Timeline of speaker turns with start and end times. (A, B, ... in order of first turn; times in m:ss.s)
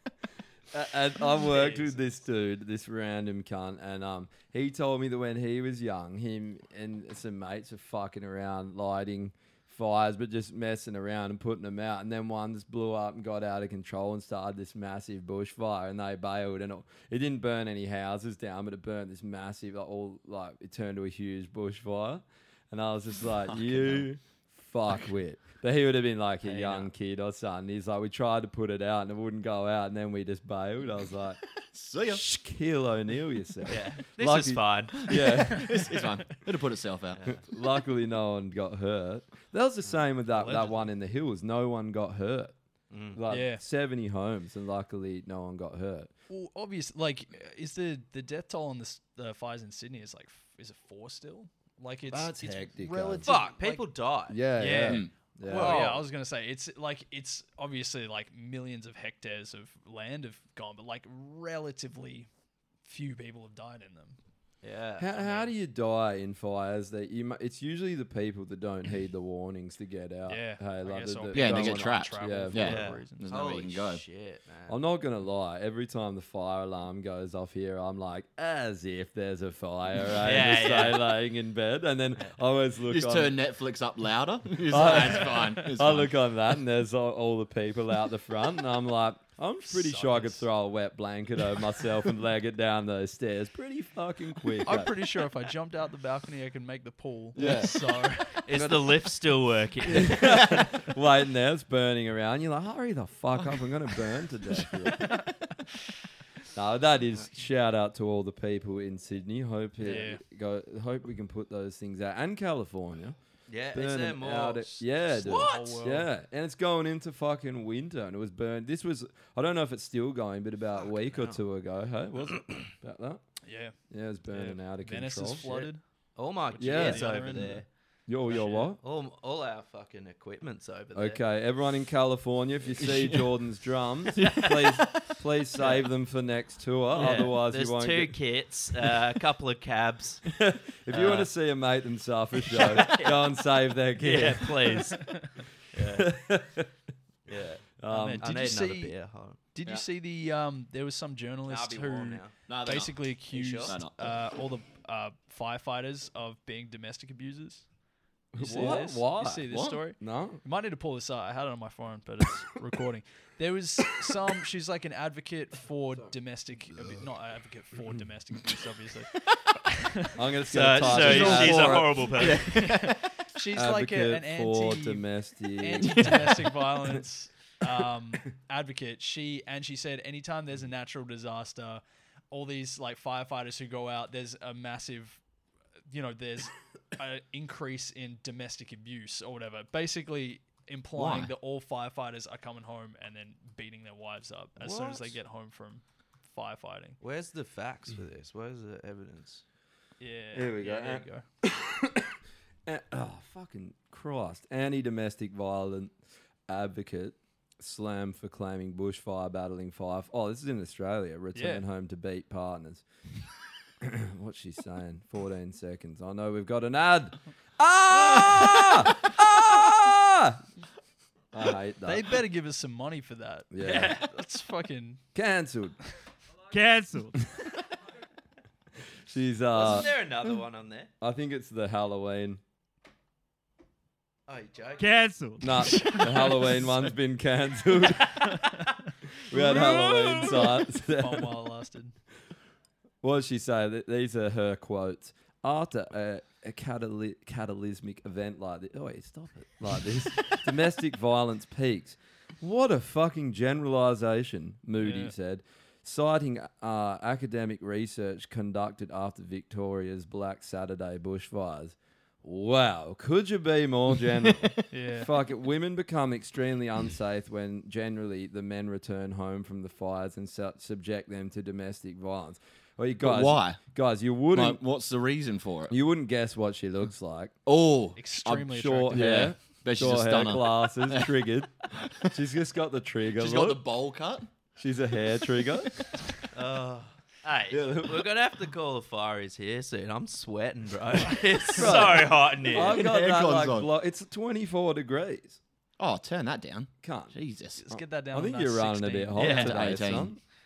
0:00.7-0:31.4 A
0:01.4-0:01.9 B
0:23.4-0:24.1 C
0:26.4-0:26.9 B
0:31.7-0:32.2 C
0:32.1-0:35.8 A
0:33.7-0:35.1 B
0:35.1-0:37.2 C
0:35.5-0:36.1 D
0:37.1-0:37.4 B
0:37.3-0:42.5 A
0:40.3-0:40.9 D
0:42.9-0:43.2 B
0:43.1-0:46.1 A
0:43.3-0:43.6 D
0:46.3-0:53.9 D
0:52.1-0:53.3 A
0:53.2-0:54.4 B
0:54.3-0:56.0 A
0:54.5-1:02.3 D
0:55.5-0:56.0 B
1:02.8-1:04.2 D
1:04.6-1:05.5 B
1:05.0-1:12.8 A
1:10.3-1:13.2 D
1:11.3-1:14.0 C
1:12.6-1:14.7 B
1:14.7-1:23.4 A
1:20.2-1:21.1 B
1:22.9-1:26.1 C
1:24.6-1:34.9 A
1:24.8-1:25.7 D
1:29.6-1:30.4 D
1:34.6-1:38.5 D
1:37.3-1:37.8 A
1:38.4-1:40.5 B
1:38.5-1:38.9 A
1:39.9-1:45.3 A
1:46.5-1:53.2 A
1:49.8-1:50.2 D
1:53.5-1:55.8 B
1:53.7-2:03.2 A
1:55.2-1:56.1 D
2:00.8-2:01.4 B
2:03.4-2:03.8 D
2:03.9-2:05.5 A
2:04.3-2:05.8 D
2:05.4-2:07.7 B
2:06.5-2:07.6 D
2:06.6-2:08.8 A
2:08.2-2:11.2 B
2:10.9-2:18.1 A
2:12.8-2:13.2 C
2:14.2-2:14.9 B
2:16.9-2:20.3 B
2:20.4-2:24.8 A
2:20.9-2:21.3 B
2:22.5-2:23.2 B
2:24.0-2:26.1 B
2:25.8-2:26.7 A
2:27.2-2:27.6 B
2:27.8-2:28.3 A
2:27.9-2:29.0 D
2:28.2-2:29.4 B
2:29.5-2:37.6 D
2:31.5-2:32.3 B
2:32.5-2:33.0 C
2:33.3-2:33.8 B
2:33.6-2:34.1 C
2:38.3-2:40.4 A
2:38.4-2:50.2 D
2:38.5-2:38.8 C
2:39.5-2:39.8 C
2:50.1-2:51.9 A
2:50.5-2:52.7 B
2:50.9-2:53.0 C
2:51.2-2:55.0 D
2:53.5-2:56.5 A
2:55.6-3:05.2 D
3:05.9-3:17.0 D
3:10.9-3:11.3 C
3:14.6-3:15.1 B
3:17.0-3:19.4 B
3:20.0-3:21.2 D
3:20.3-3:22.1 A
3:22.6-3:25.9 A
3:26.5-3:32.8 A
3:31.3-3:31.6 D
3:33.8-3:40.4 A
3:41.3-3:42.1 A
3:41.8-3:45.0 D
3:43.5-3:44.0 A
3:43.6-3:44.1 B
3:45.1-3:45.8 A
3:46.5-3:47.2 E
3:49.1-3:49.9 A
3:49.5-3:50.9 B
3:51.0-3:52.4 A
3:54.3-3:54.8 B
3:54.8-3:56.0 E
3:55.4-3:58.4 A
3:55.7-3:56.6 D
3:59.3-4:01.3 A
3:59.3-4:02.0 D
4:03.0-4:34.6 A
4:14.8-4:15.1 D
4:24.7-4:25.1 D
4:33.0-4:33.6 C
4:34.3-4:35.7 C
4:35.7-4:37.3 A
4:37.4-4:41.1 C
4:38.0-4:39.2 D
4:38.4-4:43.6 A
4:43.1-4:44.3 C
4:44.6-4:45.7 A
4:46.3-4:52.8 B
4:47.5-4:48.0 A
4:51.5-4:55.4 A
4:52.4-4:53.7 C
4:55.8-4:57.6 C
4:56.8-4:57.1 A
4:57.6-4:59.4 D
4:57.7-5:00.2 A
4:59.2-4:59.6 B
4:59.2-5:00.1 C